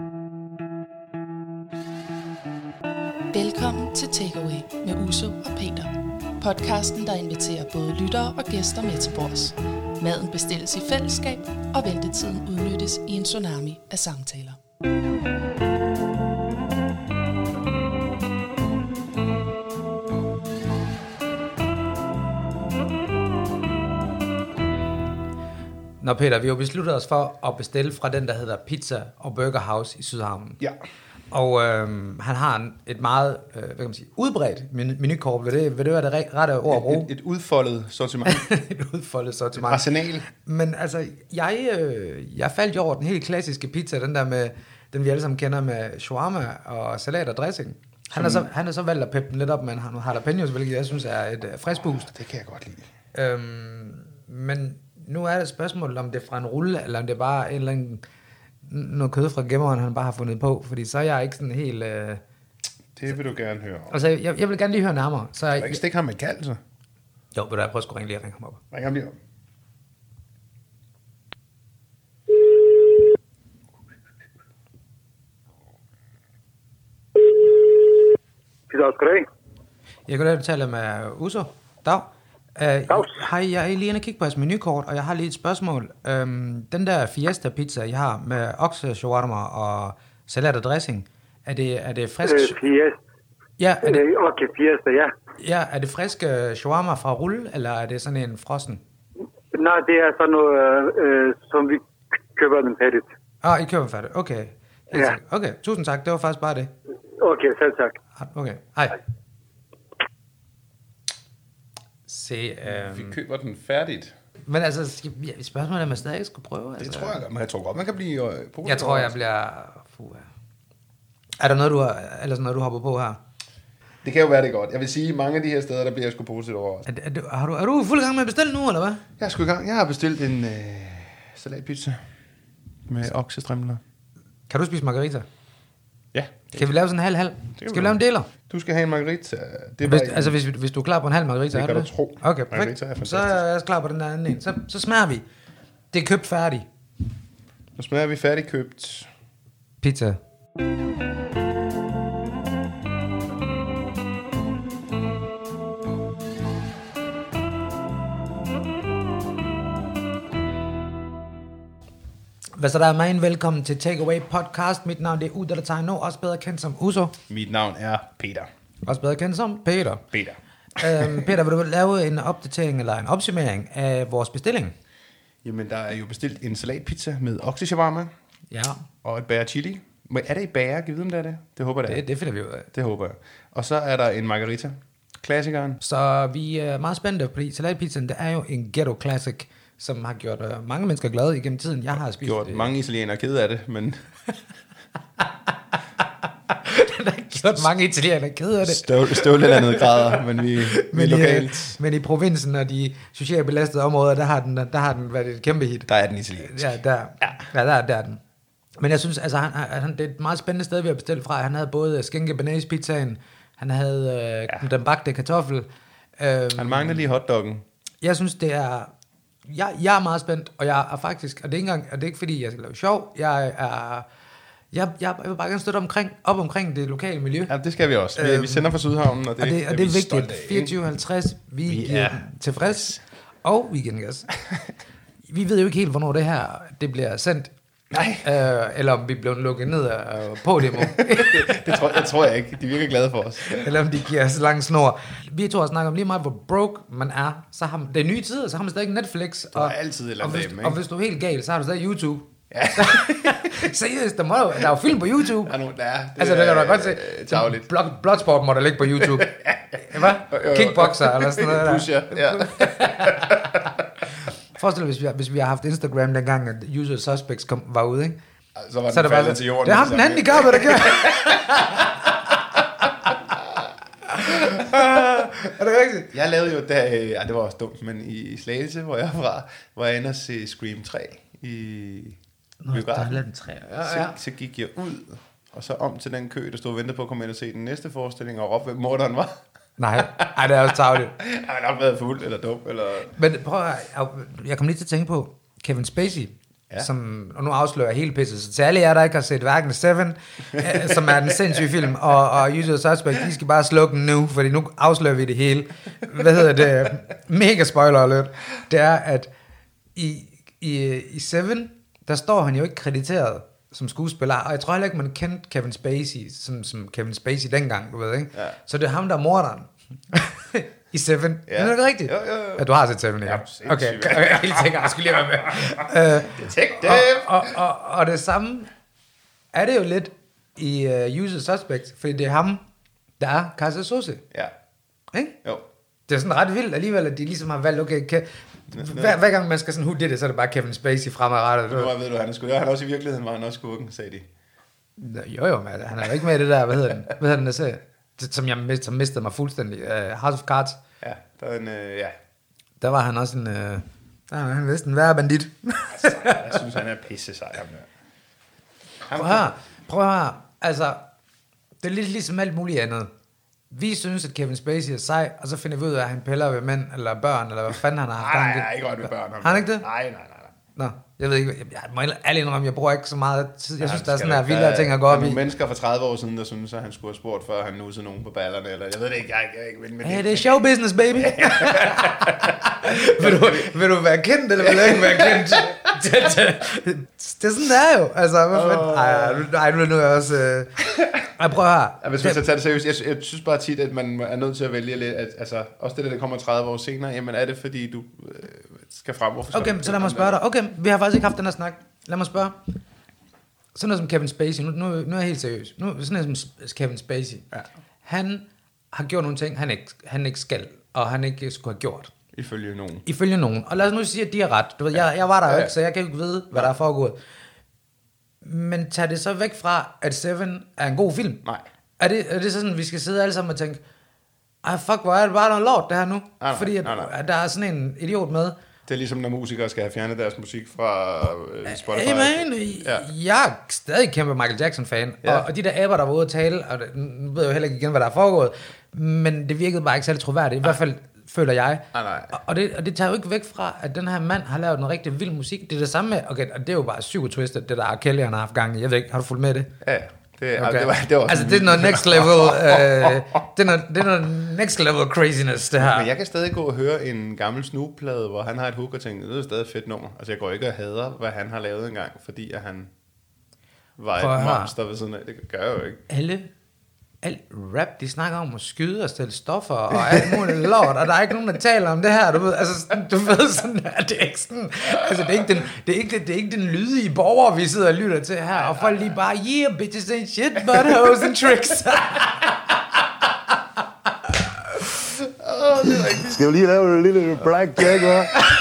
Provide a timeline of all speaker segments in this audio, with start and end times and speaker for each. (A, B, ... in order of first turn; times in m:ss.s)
0:03.3-0:14.6 A
0:26.0-0:30.6 B
0:31.3-0:37.1 B
0:36.7-0:38.4 C
0:38.2-0:52.1 B
0:39.6-0:40.2 C
0:48.1-0:48.5 C
0:51.8-0:52.8 C
0:53.1-0:58.0 B
0:58.6-1:02.2 B
1:03.0-1:04.0 C
1:03.9-1:05.8 B
1:05.6-1:06.6 C
1:07.3-1:08.6 B
1:08.7-1:09.2 C
1:18.7-1:19.3 D
1:20.1-1:32.6 B
1:32.2-1:33.0 D
1:33.6-1:34.0 B
1:33.8-1:35.1 D
1:35.4-1:38.8 B
1:39.5-1:41.8 D
1:42.3-1:43.1 D
1:43.4-1:46.7 B
1:47.2-1:47.9 D
1:48.2-1:49.0 B
1:52.1-1:53.2 B
1:52.6-1:54.1 C
1:54.4-1:57.2 B
1:56.8-1:59.2 C
1:58.6-2:00.3 B
2:01.4-2:03.2 B
2:04.0-2:06.9 C
2:06.9-2:09.0 B
2:09.2-2:12.0 C
2:12.9-2:13.8 C
2:14.5-2:15.3 B
2:16.1-2:16.8 C
2:16.5-2:18.3 B
2:17.6-2:20.3 C
2:19.8-2:25.2 B
2:21.5-2:23.4 C
2:25.9-2:26.6 B
2:27.8-2:29.1 C
2:29.8-2:30.2 B
2:42.6-2:47.2 B
2:47.3-2:48.5 C
2:48.8-2:50.0 B
2:50.1-2:51.3 C
2:50.8-2:54.7 B
2:55.4-2:58.1 C
2:58.5-2:58.8 B
2:59.0-3:02.0 C
3:01.8-3:02.7 B
3:02.7-3:05.8 C
3:05.8-3:12.7 B
3:12.2-3:14.0 C
3:16.5-3:25.9 B
3:18.6-3:21.8 C
3:25.9-3:27.4 C
3:26.4-3:28.2 B
3:28.8-3:35.7 B
3:36.2-3:37.0 B
3:36.5-3:37.6 C
3:38.0-3:38.9 B
3:39.4-3:44.0 B
3:44.7-3:47.5 B
3:47.5-3:50.8 C
3:48.2-3:48.7 B
3:49.4-3:54.3 B
3:51.7-3:53.0 C
3:55.3-3:57.5 B
3:57.9-3:58.3 C
3:58.2-4:01.9 B
4:00.7-4:03.7 C
4:03.5-4:15.5 B
4:09.5-4:10.8 C
4:12.5-4:13.7 C
4:14.6-4:17.7 C
4:16.2-4:23.6 B
4:18.9-4:24.0 C
4:24.5-4:28.2 B
4:28.6-4:31.9 C
4:28.9-4:32.1 B
4:33.1-4:33.7 C
4:34.1-4:36.1 B
4:34.5-4:35.0 C
4:36.1-4:42.2 C
4:42.6-4:44.2 B
4:42.7-4:43.2 C
4:43.8-4:49.3 C
4:49.8-4:51.1 B
4:50.0-4:53.1 C
4:53.1-5:09.3 B
5:00.6-5:01.6 C
5:09.9-5:28.7 B
5:21.5-5:22.7 C
5:23.2-5:27.6 C
5:29.5-5:32.6 B
5:33.2-5:34.2 B
5:35.1-5:35.4 B
5:36.1-5:41.9 B
5:38.7-5:39.2 C
5:41.7-5:44.3 C
5:45.0-5:50.8 B
5:51.0-5:52.2 C
5:52.8-5:56.5 B
5:55.9-5:57.9 C
5:59.1-5:59.5 C
5:59.2-6:01.0 B
6:01.8-6:03.1 B
6:03.7-6:09.8 B
6:08.2-6:10.5 C
6:10.8-6:15.4 B
6:13.8-6:20.5 C
6:20.0-6:30.8 B
6:21.1-6:23.8 C
6:24.6-6:25.9 C
6:28.5-6:29.5 C
6:30.8-6:31.3 C
6:31.3-6:32.4 B
6:32.0-6:40.4 C
6:39.5-6:42.6 B
6:43.7-6:47.4 B
6:48.0-6:52.1 B
6:52.3-6:53.0 C
6:53.0-6:57.2 B
6:55.4-6:55.7 C
6:58.4-7:01.4 B
7:02.0-7:03.8 B
7:04.6-7:08.6 B
7:06.4-7:07.1 C
7:08.8-7:13.1 C
7:11.7-7:29.7 B
7:21.9-7:22.4 C
7:29.8-7:33.4 C
7:30.6-7:36.1 B
7:35.8-7:42.9 C
7:44.0-7:46.0 C
7:44.2-7:44.7 B
7:46.1-7:46.5 B
7:47.2-8:02.6 B
7:50.0-7:50.7 C
7:58.5-7:59.1 C
8:00.7-8:01.3 C
8:05.0-8:06.4 C
8:06.2-8:08.4 E
8:07.8-8:08.1 C